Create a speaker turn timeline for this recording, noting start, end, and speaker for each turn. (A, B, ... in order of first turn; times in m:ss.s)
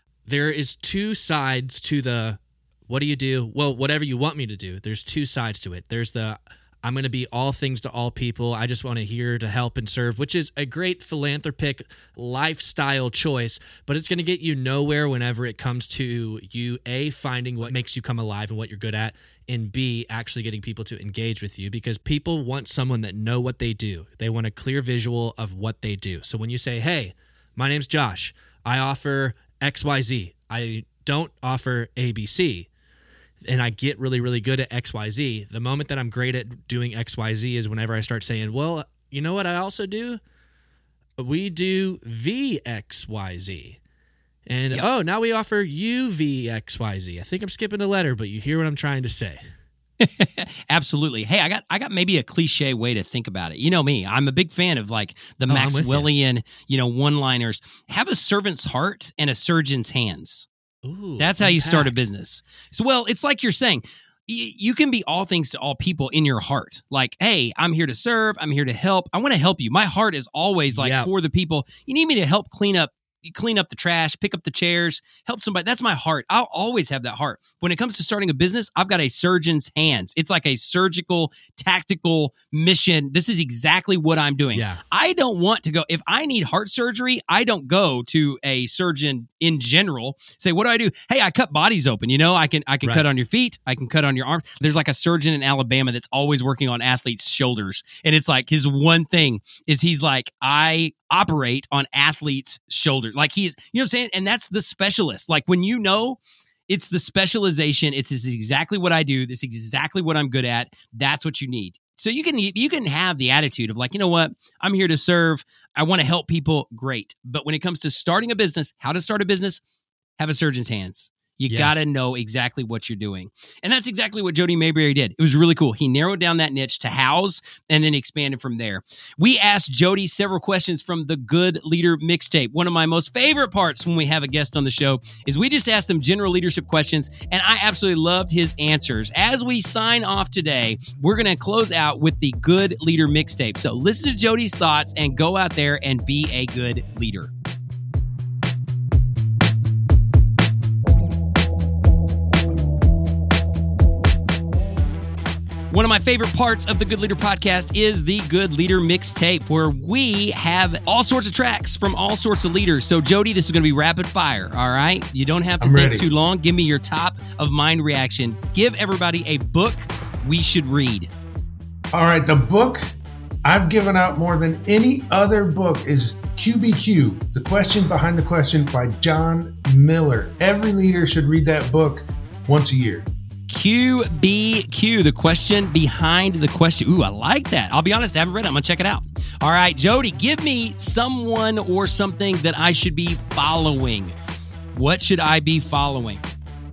0:00.2-0:32.7 A
0:33.4-0:40.2 A
0:41.2-0:43.8 A
0:44.5-0:49.4 A
0:50.0-1:00.5 B
0:55.5-0:56.1 A
1:00.8-1:01.9 A
1:01.2-1:59.6 B
1:10.7-1:11.1 A
1:24.6-1:24.8 A
2:00.2-2:27.3 B
2:35.7-2:51.1 B
2:45.6-2:46.1 C
2:51.9-2:52.8 C
2:53.4-3:03.1 C
3:03.5-3:14.1 B
3:14.7-3:16.2 B